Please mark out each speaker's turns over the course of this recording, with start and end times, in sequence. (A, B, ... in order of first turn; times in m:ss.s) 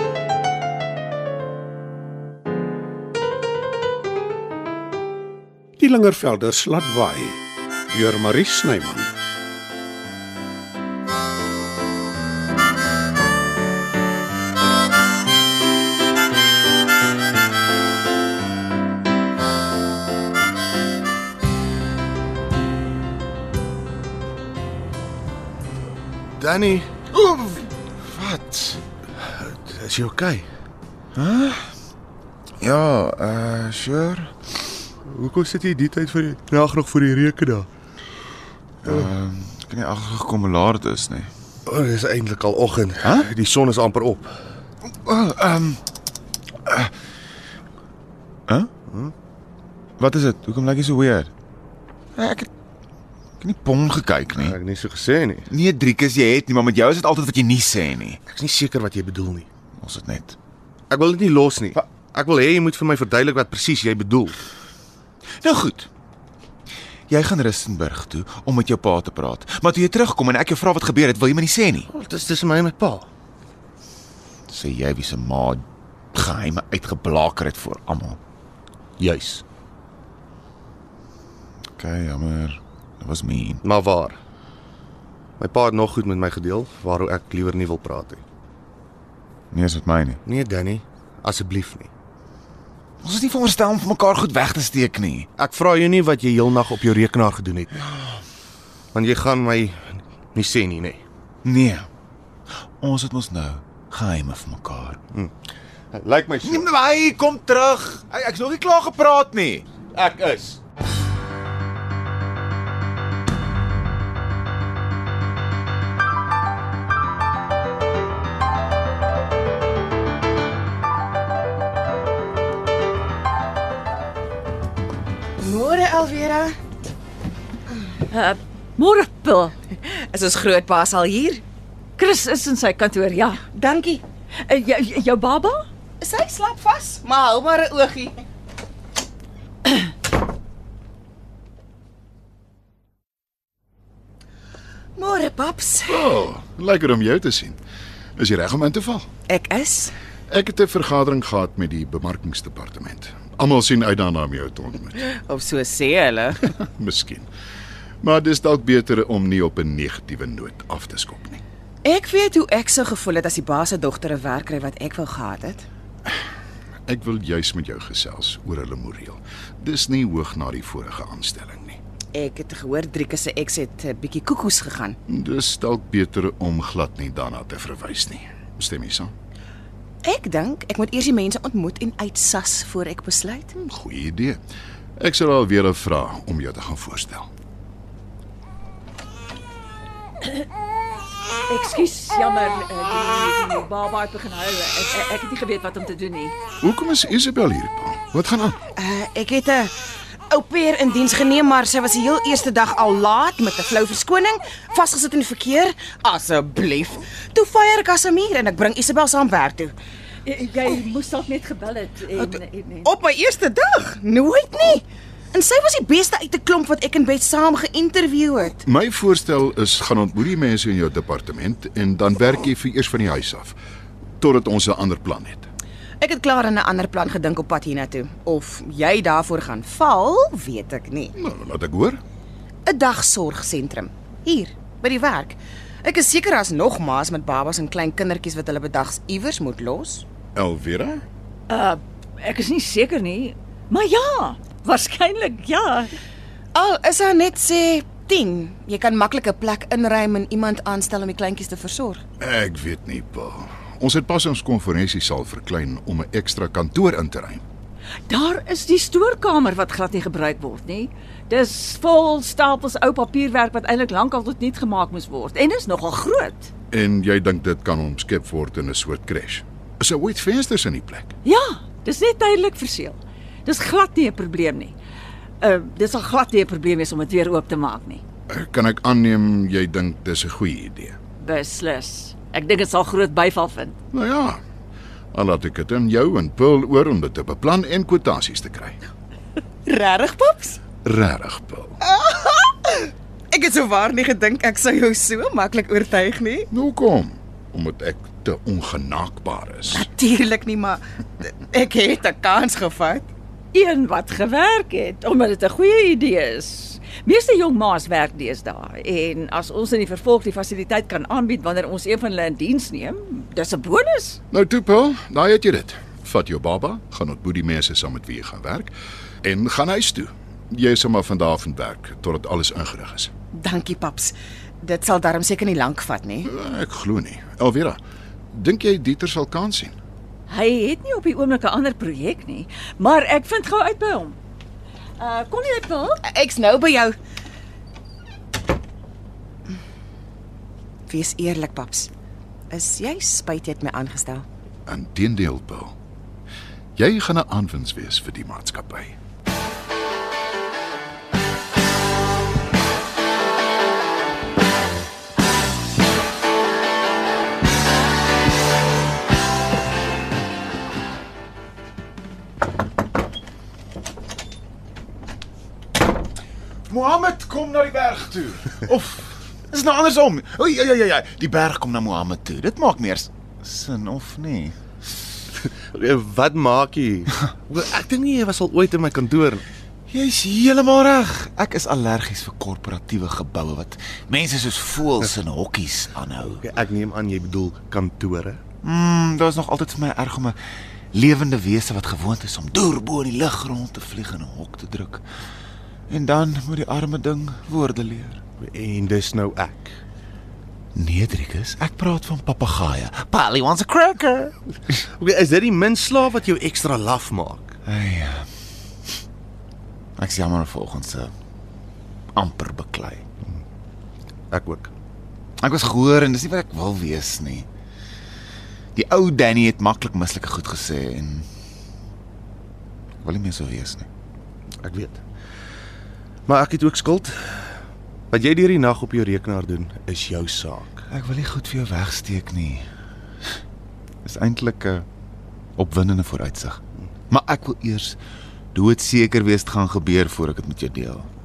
0:05.8-0:09.1 A
0:26.4-0:26.9 B
0:27.1-0:28.8 C
0:29.2-0:30.5 B
0:31.2-0:31.7 C
0:32.6-0:34.3 C
0:35.1-0:37.7 B
0:38.8-0:41.3 C
0:41.7-0:44.3 B
0:43.0-0:43.3 C
0:45.0-0:45.8 C
0:46.7-0:46.9 C
0:48.9-0:49.1 B
0:50.0-0:51.3 C
0:52.2-0:52.5 C
0:53.4-0:54.6 C
0:54.3-0:55.5 B
0:55.5-0:58.2 C
0:58.3-0:59.5 B
0:59.8-1:00.4 C
1:00.9-1:04.4 B
1:05.4-1:05.9 C
1:07.1-1:11.9 C
1:11.9-1:13.1 B
1:14.5-1:18.2 C
1:19.0-1:19.4 B
1:21.8-1:23.6 C
1:23.6-1:24.2 B
1:25.4-1:28.2 B
1:29.5-1:30.2 C
1:30.2-1:31.9 B
1:33.0-1:35.3 C
1:35.4-1:37.8 B
1:37.9-1:38.2 C
1:38.9-1:41.0 B
1:41.4-1:41.9 C
1:42.8-1:45.0 C
1:45.9-1:46.7 B
1:46.4-1:49.7 C
1:49.9-1:50.6 B
2:05.4-2:06.5 D
2:08.1-2:09.6 E
2:09.9-2:11.4 D
2:12.0-2:13.4 E
2:13.4-2:14.0 D
2:14.5-2:15.7 E
2:16.0-2:18.2 D
2:25.0-2:26.1 D
2:25.9-2:27.6 F
2:28.2-2:29.1 F
2:29.3-2:29.9 D
2:30.3-2:35.0 F
2:35.0-2:36.4 D
2:36.4-2:37.3 F
2:38.0-2:41.4 F
2:41.8-2:45.6 D
2:46.9-2:51.8 F
2:52.2-2:55.0 D
2:55.1-2:59.1 F
3:00.0-3:03.7 D
3:03.7-3:04.4 F
3:05.0-3:07.3 F
3:11.5-3:16.4 E
3:16.6-3:18.6 F
3:18.8-3:19.7 D
3:20.3-3:29.7 D
3:30.2-3:32.9 E
3:32.1-3:38.6 D
3:38.6-3:43.6 F
3:44.2-3:45.5 F
3:46.0-3:51.1 D
3:51.2-3:52.0 F
3:52.7-4:00.1 D
4:00.4-4:01.0 F
4:01.5-4:05.9 E
4:06.5-4:12.0 D
4:12.2-4:17.4 F
4:18.1-4:26.5 E
4:26.7-4:31.1 F
4:31.2-4:34.7 E
4:35.4-4:38.0 E
4:38.3-4:41.0 F
4:41.2-4:43.8 E
4:43.9-4:44.4 F
4:45.1-4:48.8 F
4:49.7-4:50.6 D
4:50.8-4:51.8 F
4:51.8-4:56.5 D
4:56.5-4:59.9 F
4:59.7-5:03.1 D
5:03.5-5:14.2 E
5:14.3-5:18.7 F
5:19.2-5:23.1 F
5:23.4-5:26.3 D
5:26.2-5:27.8 F
5:28.3-5:29.8 F
5:30.3-5:34.2 E
5:35.0-5:36.0 E
5:36.0-5:36.9 D
5:40.9-5:41.9 D
5:42.5-5:44.2 D
5:44.7-5:45.8 F
5:46.8-5:49.0 F
6:06.7-6:14.6 C
6:15.4-6:19.4 B
6:19.9-6:26.4 C
6:26.4-6:28.4 B
6:28.6-6:30.4 C
6:30.9-6:35.0 C
6:35.9-6:38.2 C
6:38.4-6:39.8 B
6:40.8-6:44.4 C
6:45.0-6:47.5 B
6:47.6-6:48.3 C
6:50.0-6:51.1 C
6:52.2-6:53.0 C
6:54.3-6:54.7 B
6:55.4-6:57.5 C
6:58.8-7:01.3 C
7:03.0-7:03.9 C
7:04.6-7:05.0 B
7:06.3-7:07.6 B
7:08.1-7:10.8 B
7:10.9-7:12.7 C
7:14.0-7:14.9 C
7:15.6-7:18.0 C
7:18.5-7:21.1 C